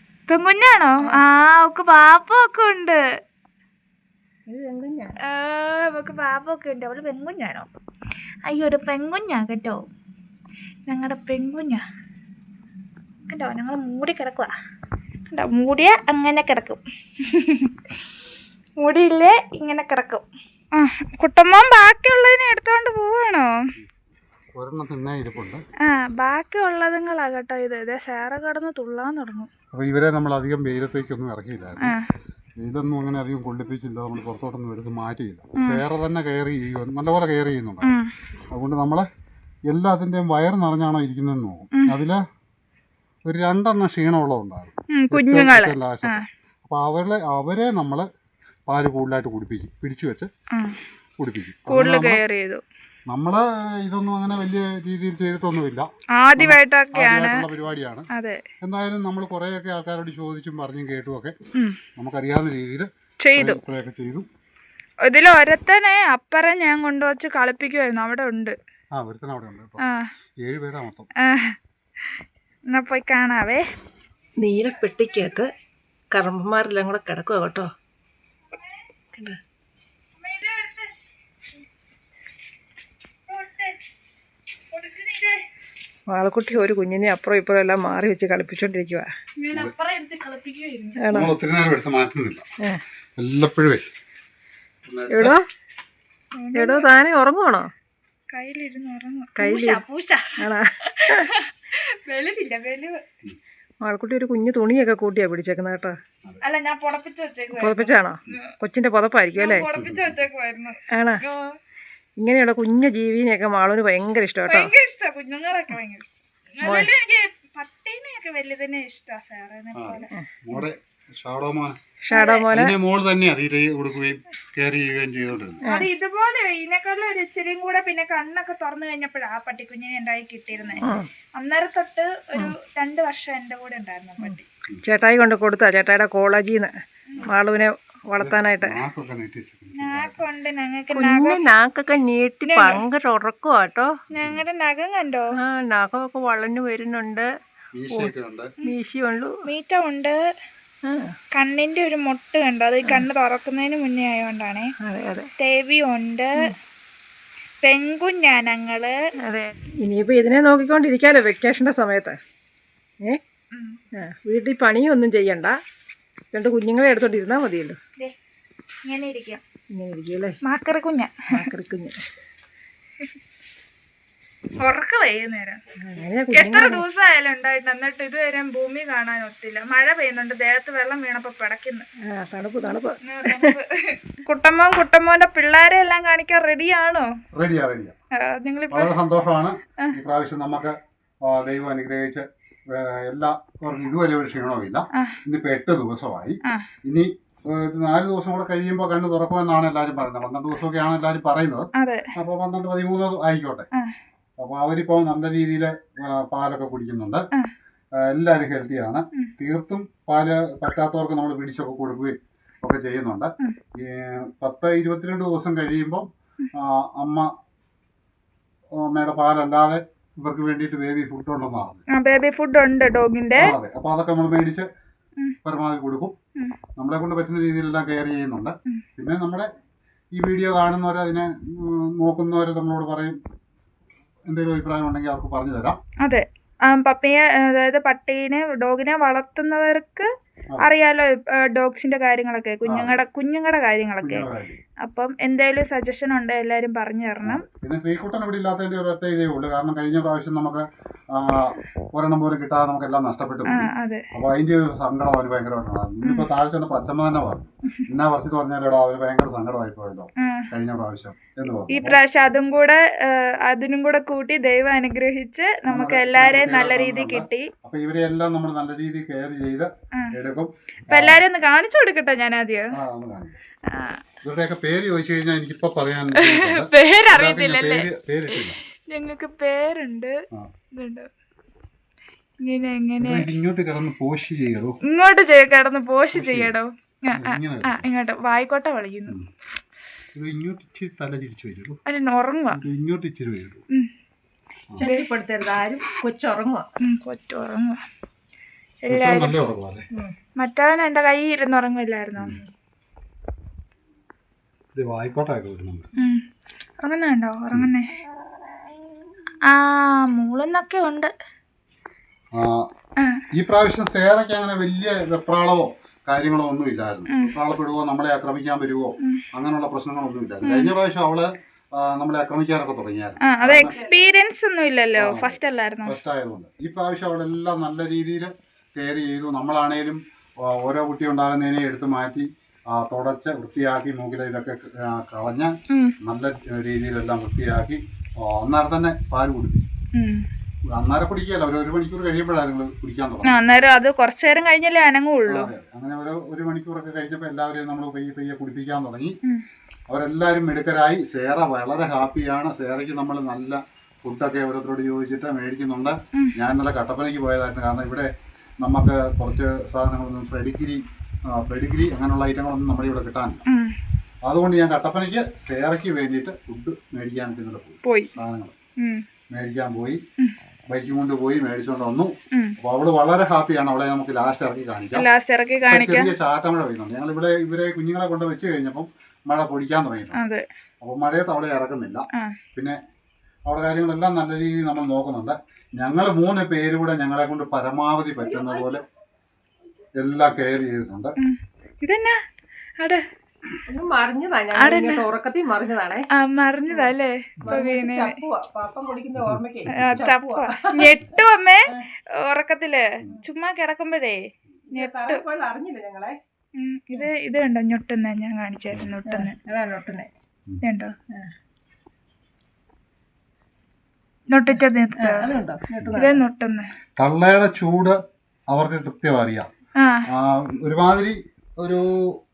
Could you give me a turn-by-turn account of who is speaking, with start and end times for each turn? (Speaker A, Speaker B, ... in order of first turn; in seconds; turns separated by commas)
Speaker A: 0.3-3.0, Speaker B: 4.5-5.1, Speaker A: 5.2-7.7, Speaker A: 8.5-9.9, Speaker A: 10.9-11.8, Speaker A: 13.3-14.5, Speaker A: 15.3-17.7, Speaker A: 18.8-20.2, Speaker A: 20.8-23.5, Speaker C: 24.6-25.6, Speaker A: 25.8-29.5, Speaker C: 29.7-31.9, Speaker C: 32.6-37.9, Speaker A: 35.6-35.8, Speaker A: 37.8-38.1, Speaker C: 38.5-39.0, Speaker C: 39.7-42.2, Speaker C: 43.2-48.0, Speaker A: 44.9-46.2, Speaker C: 48.7-50.3, Speaker C: 51.2-52.2, Speaker A: 51.7-52.6, Speaker C: 53.1-58.1, Speaker A: 56.2-57.4, Speaker A: 58.1-58.4, Speaker C: 58.6-61.3, Speaker C: 62.0-64.2, Speaker A: 63.2-63.6, Speaker A: 65.0-68.5, Speaker C: 68.9-69.8, Speaker A: 69.8-70.0, Speaker C: 70.4-71.1, Speaker A: 71.2-71.5, Speaker A: 72.7-73.6, Speaker B: 74.4-75.5, Speaker B: 76.1-77.7, Speaker A: 80.2-80.9, Speaker A: 83.3-83.7, Speaker A: 84.7-85.4, Speaker B: 86.1-89.1, Speaker A: 89.4-91.0, Speaker B: 91.0-91.3, Speaker C: 91.1-92.4, Speaker C: 93.2-93.8, Speaker C: 94.8-95.3, Speaker B: 95.1-95.4, Speaker A: 96.4-96.9, Speaker B: 96.5-97.7, Speaker A: 98.3-103.0, Speaker B: 99.4-99.8, Speaker B: 100.4-101.3, Speaker B: 103.8-105.9, Speaker A: 106.4-108.5, Speaker B: 107.5-109.7, Speaker A: 109.3-111.5, Speaker C: 109.7-110.2, Speaker B: 110.9-111.2, Speaker B: 112.2-114.7, Speaker A: 114.5-120.1, Speaker B: 116.6-116.9, Speaker C: 119.7-121.8, Speaker B: 122.1-122.7, Speaker A: 122.1-122.5, Speaker C: 122.5-125.6, Speaker A: 125.6-134.4, Speaker C: 130.8-131.0, Speaker B: 130.8-131.1, Speaker B: 134.2-136.7, Speaker B: 137.3-138.8, Speaker C: 138.2-140.2, Speaker A: 139.8-141.4, Speaker B: 140.9-143.9, Speaker A: 142.4-142.8, Speaker A: 144.1-145.3, Speaker C: 144.2-144.4, Speaker B: 145.4-147.2, Speaker C: 147.7-148.5, Speaker B: 148.6-149.4, Speaker A: 149.4-150.2, Speaker A: 151.3-154.7, Speaker B: 154.8-155.3, Speaker A: 155.4-156.5, Speaker A: 157.6-158.9, Speaker B: 159.2-162.2, Speaker A: 163.5-163.8, Speaker B: 164.0-165.6, Speaker B: 166.3-167.8, Speaker A: 168.8-169.4, Speaker B: 169.7-170.4, Speaker A: 170.4-171.2, Speaker B: 171.3-172.0, Speaker A: 174.6-175.6, Speaker B: 175.9-176.8, Speaker A: 176.3-181.8, Speaker B: 182.1-183.5, Speaker A: 183.0-187.1, Speaker C: 187.4-187.9, Speaker A: 188.2-188.9, Speaker C: 188.7-203.7, Speaker A: 201.8-202.1, Speaker C: 204.4-207.3, Speaker C: 208.0-216.1, Speaker C: 216.6-217.3, Speaker C: 218.8-221.8, Speaker A: 221.9-223.5, Speaker C: 223.4-224.7, Speaker C: 225.4-226.1, Speaker C: 226.8-229.5, Speaker C: 230.2-233.2, Speaker C: 234.3-235.8, Speaker A: 236.0-240.1, Speaker A: 240.6-244.3, Speaker C: 242.7-243.0, Speaker C: 244.0-244.6, Speaker A: 244.8-247.4, Speaker C: 247.2-262.0, Speaker A: 253.5-254.0, Speaker A: 256.0-256.3, Speaker A: 261.7-267.5, Speaker C: 265.7-271.2, Speaker A: 270.9-272.7, Speaker C: 272.8-273.4, Speaker A: 273.7-274.0, Speaker C: 274.2-278.6, Speaker A: 276.1-280.1, Speaker A: 280.7-281.1, Speaker A: 282.4-283.3, Speaker C: 283.0-284.8, Speaker A: 284.9-289.1, Speaker C: 286.1-286.6, Speaker C: 287.1-287.9, Speaker C: 290.1-291.8, Speaker A: 291.9-292.6, Speaker C: 292.5-293.6, Speaker B: 294.8-296.6, Speaker A: 294.8-295.0, Speaker A: 296.8-297.8, Speaker A: 298.8-299.3, Speaker C: 298.9-299.8, Speaker A: 300.4-302.4, Speaker C: 304.7-305.9, Speaker A: 306.8-307.9, Speaker A: 309.5-311.1, Speaker C: 312.3-312.6, Speaker C: 313.3-323.7, Speaker A: 317.1-317.3, Speaker A: 320.4-320.7, Speaker A: 323.2-325.9, Speaker B: 323.7-324.0, Speaker C: 324.9-339.7, Speaker A: 339.9-340.2, Speaker C: 340.7-343.4, Speaker A: 343.2-345.5, Speaker C: 345.3-349.2, Speaker C: 349.9-358.1, Speaker C: 358.6-363.4, Speaker A: 363.5-363.7, Speaker C: 364.2-368.5, Speaker A: 367.8-368.1, Speaker C: 369.3-370.0, Speaker C: 370.7-375.1, Speaker A: 374.9-376.1, Speaker C: 375.7-380.3, Speaker A: 380.1-380.4, Speaker C: 380.8-382.8, Speaker C: 383.5-388.8, Speaker B: 388.2-388.8, Speaker C: 390.0-391.1, Speaker A: 391.2-392.1, Speaker B: 393.7-396.1, Speaker A: 394.5-395.0, Speaker A: 396.1-398.1, Speaker B: 397.4-400.6, Speaker C: 399.2-400.0, Speaker A: 399.8-404.2, Speaker B: 404.7-406.1, Speaker A: 404.7-405.2, Speaker A: 406.6-409.3, Speaker B: 409.1-410.1, Speaker A: 410.6-410.9, Speaker A: 414.3-415.3, Speaker B: 415.0-416.2, Speaker A: 416.0-416.7, Speaker C: 417.0-418.0, Speaker C: 418.5-419.5, Speaker A: 419.8-420.1, Speaker C: 420.1-421.8